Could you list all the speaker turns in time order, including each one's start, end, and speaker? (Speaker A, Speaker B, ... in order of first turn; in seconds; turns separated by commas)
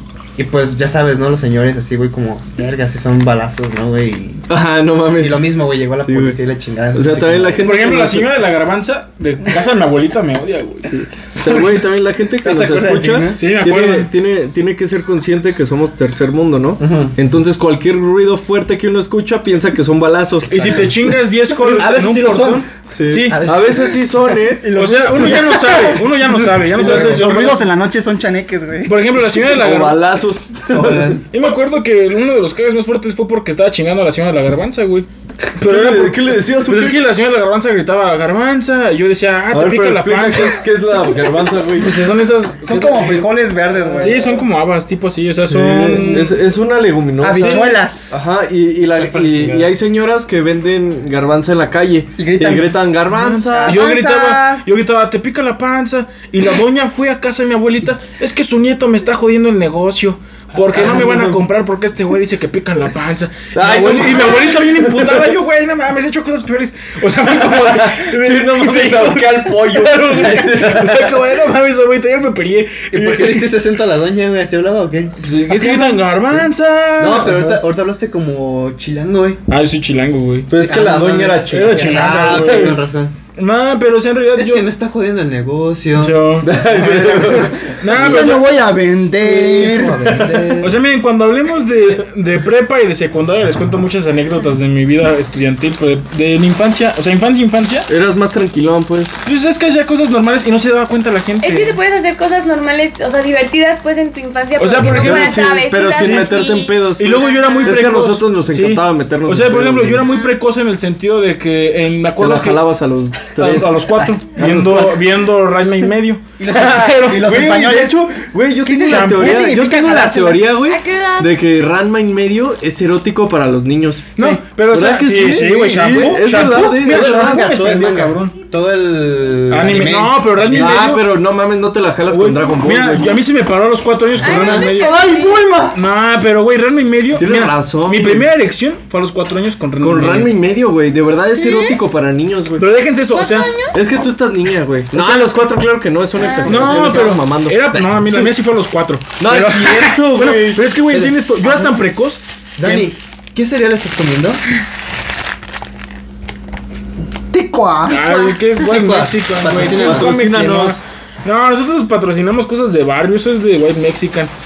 Speaker A: 0.3-4.4, Speaker B: 4.5-6.4, Speaker A: 5.2-7.6, Speaker B: 6.9-8.3, Speaker C: 7.6-11.8, Speaker B: 10.9-20.8, Speaker A: 12.4-13.3, Speaker C: 13.4-14.1, Speaker A: 16.8-17.1, Speaker C: 20.5-23.4, Speaker A: 21.6-22.7, Speaker B: 22.9-24.9, Speaker A: 23.3-23.9, Speaker D: 24.7-26.1, Speaker C: 24.7-27.6, Speaker D: 26.8-29.0, Speaker A: 26.8-27.2, Speaker B: 26.8-27.6, Speaker C: 28.9-30.0, Speaker B: 29.2-31.2, Speaker A: 30.7-31.2, Speaker C: 31.3-35.1, Speaker C: 35.6-40.6, Speaker B: 35.6-37.0, Speaker B: 39.5-42.1, Speaker C: 41.7-42.7, Speaker D: 42.6-44.3, Speaker B: 42.7-43.3, Speaker C: 44.0-46.4, Speaker B: 45.4-53.8, Speaker D: 45.8-46.1, Speaker D: 47.2-48.2, Speaker C: 47.4-47.8, Speaker A: 49.0-49.7, Speaker D: 52.2-52.8, Speaker C: 53.1-73.6, Speaker D: 53.5-54.6, Speaker B: 60.7-61.4, Speaker B: 63.5-65.3, Speaker B: 67.3-71.2, Speaker A: 72.9-76.4, Speaker C: 75.2-77.4, Speaker A: 77.0-79.4, Speaker B: 77.2-77.6, Speaker C: 79.5-80.5, Speaker B: 80.5-82.8, Speaker A: 80.6-83.1, Speaker C: 81.5-82.8, Speaker C: 83.3-84.7, Speaker A: 84.3-88.4, Speaker C: 86.0-86.5, Speaker B: 86.4-87.7, Speaker C: 87.8-88.5, Speaker D: 87.9-90.6, Speaker A: 89.2-90.7, Speaker C: 90.6-97.9, Speaker B: 97.9-99.2, Speaker C: 99.2-101.8, Speaker E: 101.4-107.8, Speaker C: 104.6-106.4, Speaker B: 104.8-110.0, Speaker C: 107.0-112.7, Speaker B: 112.2-115.0, Speaker C: 113.3-117.3, Speaker D: 116.4-118.1, Speaker B: 116.5-124.2, Speaker D: 118.6-120.5, Speaker C: 118.8-119.5, Speaker E: 120.6-121.4, Speaker C: 124.2-128.3, Speaker B: 124.7-127.5, Speaker A: 126.8-130.9, Speaker C: 129.5-131.1, Speaker B: 130.5-133.2, Speaker C: 132.1-135.0, Speaker A: 134.2-135.8, Speaker E: 134.2-135.4, Speaker C: 135.7-140.3, Speaker B: 137.1-138.3, Speaker B: 139.8-142.7, Speaker E: 141.3-141.8, Speaker C: 142.6-143.5, Speaker E: 143.1-143.8, Speaker B: 143.7-147.8, Speaker C: 144.9-145.3, Speaker E: 146.2-146.5, Speaker C: 146.4-152.9, Speaker B: 149.2-150.7, Speaker A: 150.9-151.8, Speaker A: 152.6-154.4, Speaker D: 157.3-158.0, Speaker C: 157.9-164.3, Speaker E: 157.9-158.4, Speaker A: 158.6-160.1, Speaker B: 159.5-160.8